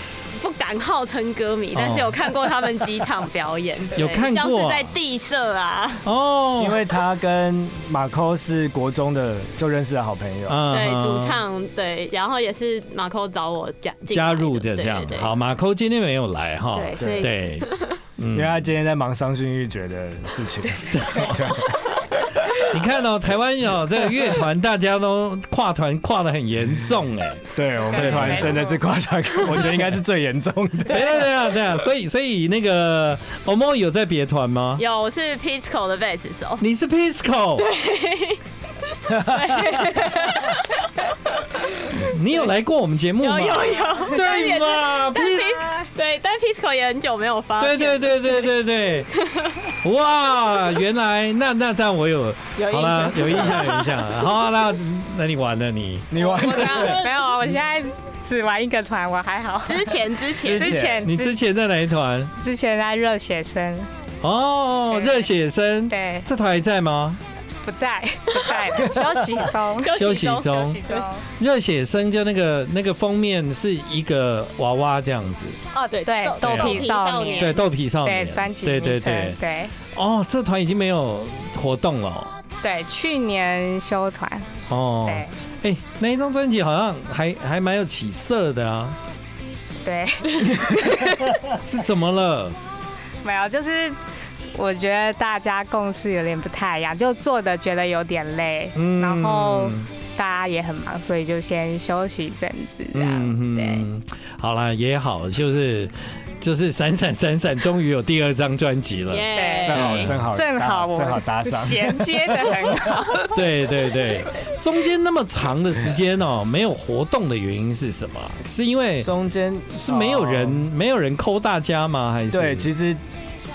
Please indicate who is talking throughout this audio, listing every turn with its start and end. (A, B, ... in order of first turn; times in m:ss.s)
0:00.4-0:06.0 A
0:01.7-0:02.3 B
0:04.0-0:05.0 B
0:06.0-0:06.8 B
0:06.6-0:10.6 C
0:10.5-0:11.4 B
0:10.7-0:15.3 A
0:14.1-0:18.6 B
0:16.7-0:18.0 A
0:17.0-0:17.3 C
0:18.3-0:22.6 C
0:20.9-0:21.6 B
0:22.7-0:28.7 B
0:27.5-0:31.2 C
0:28.0-0:28.8 D
0:29.5-0:29.8 B
0:30.9-0:34.8 B
0:34.8-0:36.6 A
0:36.6-0:37.7 B
0:37.6-0:42.5 A
0:39.1-0:40.0 C
0:41.9-0:45.6 B
0:43.2-0:48.6 A
0:47.6-0:49.1 B
0:49.1-0:49.8 A
0:49.8-0:56.8 B
0:52.6-0:54.2 A
0:56.1-0:57.0 C
0:56.2-0:57.4 A
0:56.5-1:01.4 D
0:59.7-1:00.8 A
1:00.4-1:01.0 C
1:01.0-1:02.3 B
1:02.4-1:03.9 D
1:04.2-1:07.2 B
1:04.9-1:05.3 D
1:05.9-1:06.3 D
1:07.6-1:09.9 D
1:08.4-1:08.8 A
1:09.8-1:11.1 A
1:09.9-1:10.8 B
1:10.6-1:11.2 D
1:11.4-1:15.6 B
1:15.7-1:17.7 A
1:16.0-1:19.7 D
1:16.4-1:19.4 B
1:19.9-1:22.3 B
1:22.6-1:24.5 D
1:24.7-1:29.0 B
1:25.0-1:25.4 D
1:29.8-1:31.4 D
1:31.5-1:32.6 B
1:33.2-1:34.0 D
1:34.6-1:43.8 D
1:38.8-1:39.9 B
1:42.9-1:50.2 B
1:49.1-1:50.1 A
1:49.3-1:49.8 D
1:49.6-1:52.9 C
1:50.3-1:53.4 D
1:53.3-1:59.1 B
1:59.0-2:00.7 C
1:59.8-2:02.7 B
2:02.3-2:03.0 C